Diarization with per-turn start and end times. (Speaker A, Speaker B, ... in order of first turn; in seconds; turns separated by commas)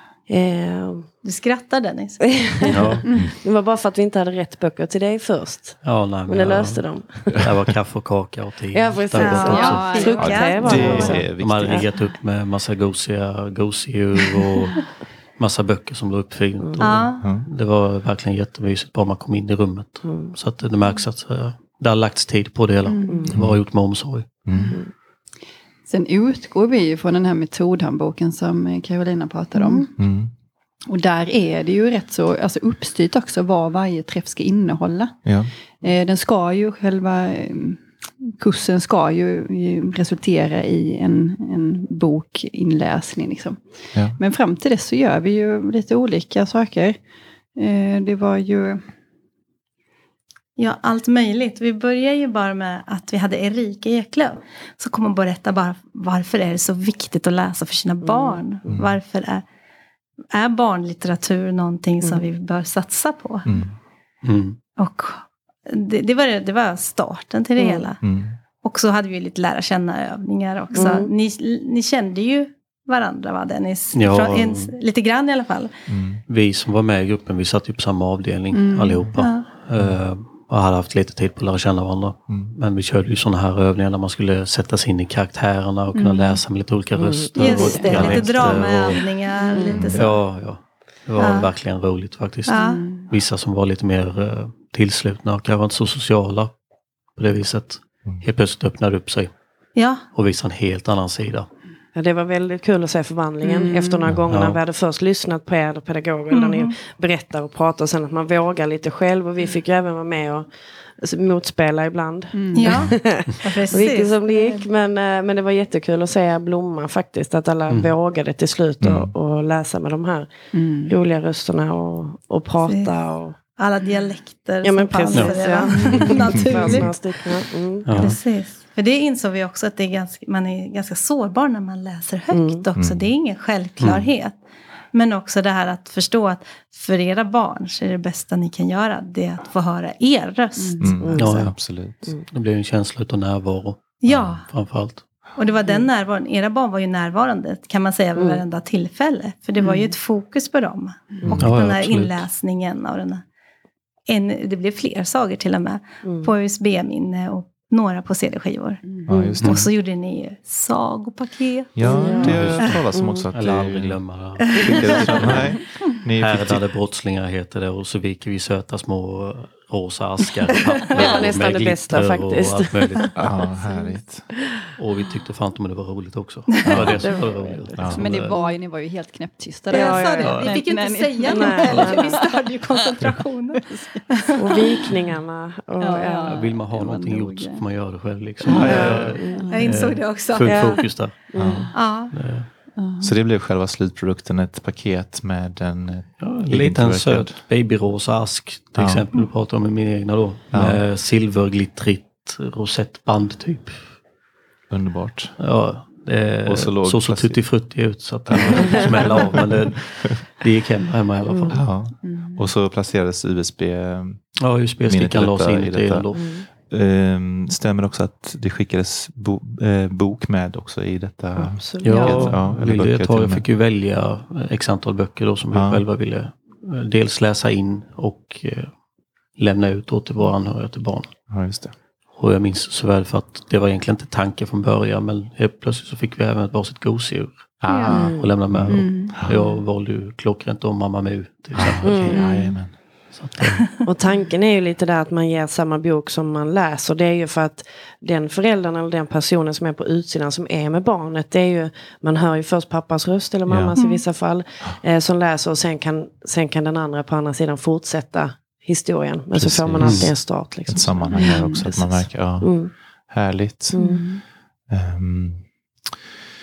Speaker A: 0.3-1.1, Speaker B: 1.2-2.8, Speaker A: 2.3-7.5, Speaker C: 2.7-3.0, Speaker C: 5.8-24.3, Speaker A: 8.7-11.9, Speaker B: 9.2-11.3, Speaker D: 9.3-11.2, Speaker E: 10.2-11.9, Speaker B: 16.8-17.4, Speaker E: 17.2-17.5, Speaker A: 20.0-20.3, Speaker D: 22.9-23.3, Speaker A: 23.1-23.3, Speaker E: 23.3-23.6, Speaker E: 24.5-24.8, Speaker D: 24.5-24.8, Speaker D: 25.9-29.9, Speaker E: 30.0-30.3, Speaker D: 30.9-35.2, Speaker E: 35.2-35.5, Speaker D: 35.8-47.0, Speaker D: 47.5-48.9, Speaker B: 50.6-59.5, Speaker A: 58.1-58.4, Speaker E: 58.7-59.0, Speaker B: 60.3-63.5, Speaker E: 63.5-63.7, Speaker C: 64.2-64.6, Speaker B: 64.8-68.0, Speaker A: 67.6-67.9, Speaker E: 68.0-68.4, Speaker B: 68.6-75.7, Speaker A: 70.7-71.1, Speaker C: 73.9-74.7, Speaker E: 75.9-76.2, Speaker C: 76.3-89.1, Speaker D: 78.5-79.1, Speaker B: 79.2-79.5, Speaker D: 85.9-86.4, Speaker A: 87.0-88.6, Speaker B: 87.4-90.2, Speaker D: 87.7-88.0, Speaker A: 89.5-90.0, Speaker E: 89.7-90.1, Speaker C: 89.8-96.5, Speaker B: 91.2-91.5, Speaker B: 92.5-93.0, Speaker D: 92.5-93.1, Speaker C: 97.2-99.3, Speaker B: 99.8-100.0, Speaker C: 100.1-101.5, Speaker A: 101.9-123.4, Speaker B: 103.6-104.1, Speaker C: 104.3-104.6, Speaker B: 106.3-106.7, Speaker D: 112.3-112.9, Speaker B: 112.5-114.7, Speaker E: 118.8-119.1, Speaker D: 120.5-120.9, Speaker B: 122.6-127.0, Speaker A: 124.6-128.1, Speaker E: 126.2-126.8, Speaker C: 127.8-128.2, Speaker B: 127.9-134.4, Speaker A: 132.3-132.7, Speaker E: 132.8-133.1, Speaker C: 133.8-134.1, Speaker B: 134.9-141.4, Speaker D: 140.6-141.1, Speaker E: 140.8-142.1, Speaker A: 141.0-141.5, Speaker C: 141.2-141.6, Speaker C: 142.3-144.0, Speaker B: 144.0-144.5, Speaker E: 144.1-144.4, Speaker C: 144.5-145.0, Speaker B: 145.3-153.2, Speaker A: 148.2-148.4, Speaker A: 149.6-149.9, Speaker E: 151.3-151.6, Speaker C: 151.3-152.2, Speaker B: 154.1-162.8, Speaker A: 156.0-156.3, Speaker D: 158.8-159.4, Speaker E: 159.1-159.7, Speaker E: 161.8-166.7, Speaker A: 161.8-163.2, Speaker C: 162.2-165.6, Speaker C: 166.2-173.3, Speaker A: 170.9-172.9, Speaker E: 173.2-174.3, Speaker C: 174.8-178.4, Speaker B: 176.5-176.8, Speaker E: 176.7-177.0, Speaker A: 176.7-178.5, Speaker E: 177.8-178.1, Speaker D: 177.9-184.6, Speaker A: 179.7-180.5, Speaker B: 179.7-184.9, Speaker C: 180.2-180.5, Speaker A: 181.3-182.2, Speaker A: 184.4-186.4, Speaker D: 185.8-187.7, Speaker C: 186.3-191.2, Speaker D: 188.4-188.8, Speaker A: 188.5-189.5, Speaker E: 188.5-189.2, Speaker B: 188.6-190.8, Speaker D: 189.3-189.9, Speaker A: 190.4-191.7, Speaker E: 191.3-191.7, Speaker B: 191.7-192.2, Speaker C: 192.1-192.5, Speaker D: 192.8-193.1, Speaker E: 193.0-197.4, Speaker C: 196.2-203.9, Speaker E: 198.8-199.0, Speaker E: 200.5-200.8, Speaker E: 204.7-205.4, Speaker C: 205.4-211.6, Speaker E: 206.4-207.4, Speaker E: 208.3-210.2, Speaker E: 211.5-216.1, Speaker D: 212.0-212.5, Speaker C: 214.4-216.5, Speaker A: 216.2-216.4, Speaker E: 216.6-223.4, Speaker A: 221.4-222.3, Speaker C: 221.8-228.7, Speaker D: 221.9-222.4, Speaker E: 225.5-225.8, Speaker C: 229.4-231.1, Speaker E: 231.3-231.7, Speaker C: 232.2-242.2, Speaker E: 237.6-239.3, Speaker D: 237.7-238.0, Speaker A: 237.9-238.3, Speaker D: 238.7-239.4, Speaker E: 241.6-242.8, Speaker A: 241.8-242.3, Speaker C: 243.1-243.6, Speaker B: 243.6-243.9, Speaker A: 243.8-261.5, Speaker E: 253.5-253.7, Speaker B: 253.8-254.0, Speaker E: 259.3-263.8, Speaker C: 259.8-260.1, Speaker D: 261.1-262.1, Speaker A: 262.4-262.7, Speaker A: 263.7-264.0, Speaker D: 263.8-264.2, Speaker E: 264.7-265.4